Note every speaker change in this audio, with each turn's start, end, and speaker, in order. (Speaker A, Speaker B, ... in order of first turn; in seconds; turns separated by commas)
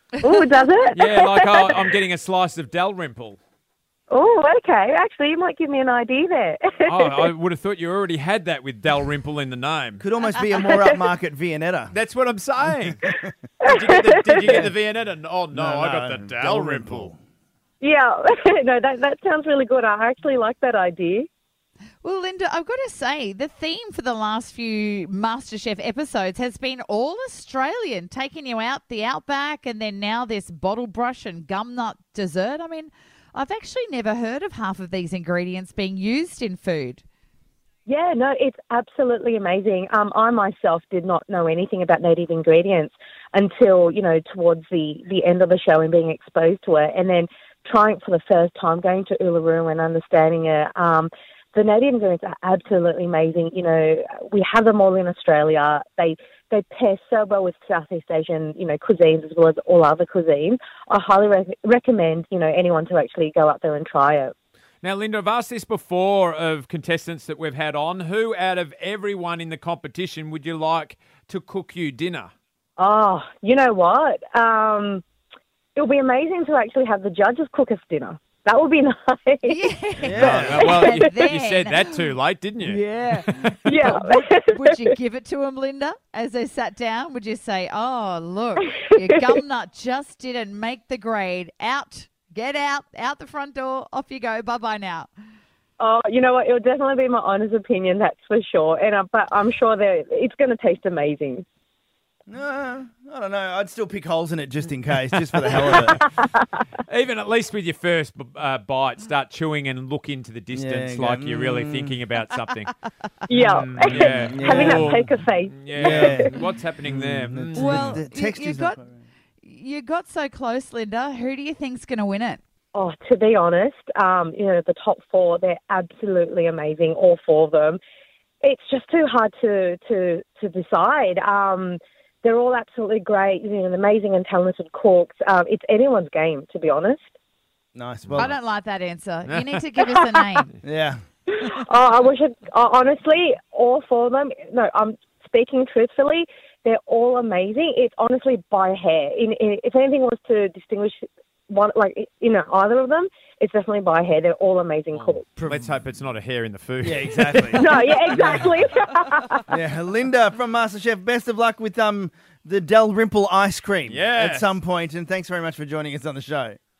Speaker A: 0.2-1.8, Speaker B: 0.9-3.4, Speaker A: 4.1-7.3, Speaker B: 6.8-10.0, Speaker C: 10.0-11.9, Speaker B: 11.9-13.0, Speaker A: 13.6-14.6, Speaker B: 13.6-17.1, Speaker C: 14.4-14.7, Speaker C: 15.5-17.2, Speaker A: 17.8-21.3, Speaker D: 22.0-37.0, Speaker A: 37.9-64.3, Speaker B: 64.8-72.3, Speaker A: 72.8-75.0, Speaker A: 75.8-79.6, Speaker D: 79.4-81.9, Speaker C: 80.0-80.7, Speaker B: 80.1-83.5, Speaker A: 80.5-81.1, Speaker D: 82.7-95.1, Speaker A: 83.6-84.8, Speaker A: 95.8-101.4, Speaker C: 102.3-106.0, Speaker B: 105.1-106.0, Speaker B: 106.9-112.7, Speaker C: 110.5-111.9, Speaker A: 113.3-116.3, Speaker B: 113.3-118.0, Speaker C: 113.9-115.1, Speaker C: 115.8-116.3, Speaker C: 116.9-119.0, Speaker D: 117.5-118.8, Speaker D: 119.4-122.4, Speaker A: 122.7-127.8, Speaker A: 128.4-137.1, Speaker C: 137.7-138.3, Speaker D: 138.1-140.5, Speaker B: 139.3-139.6, Speaker C: 140.6-141.0, Speaker A: 141.3-155.2, Speaker B: 154.9-158.4, Speaker C: 155.4-155.7, Speaker C: 156.8-157.7, Speaker A: 157.6-159.4, Speaker C: 159.5-166.6, Speaker B: 163.9-164.6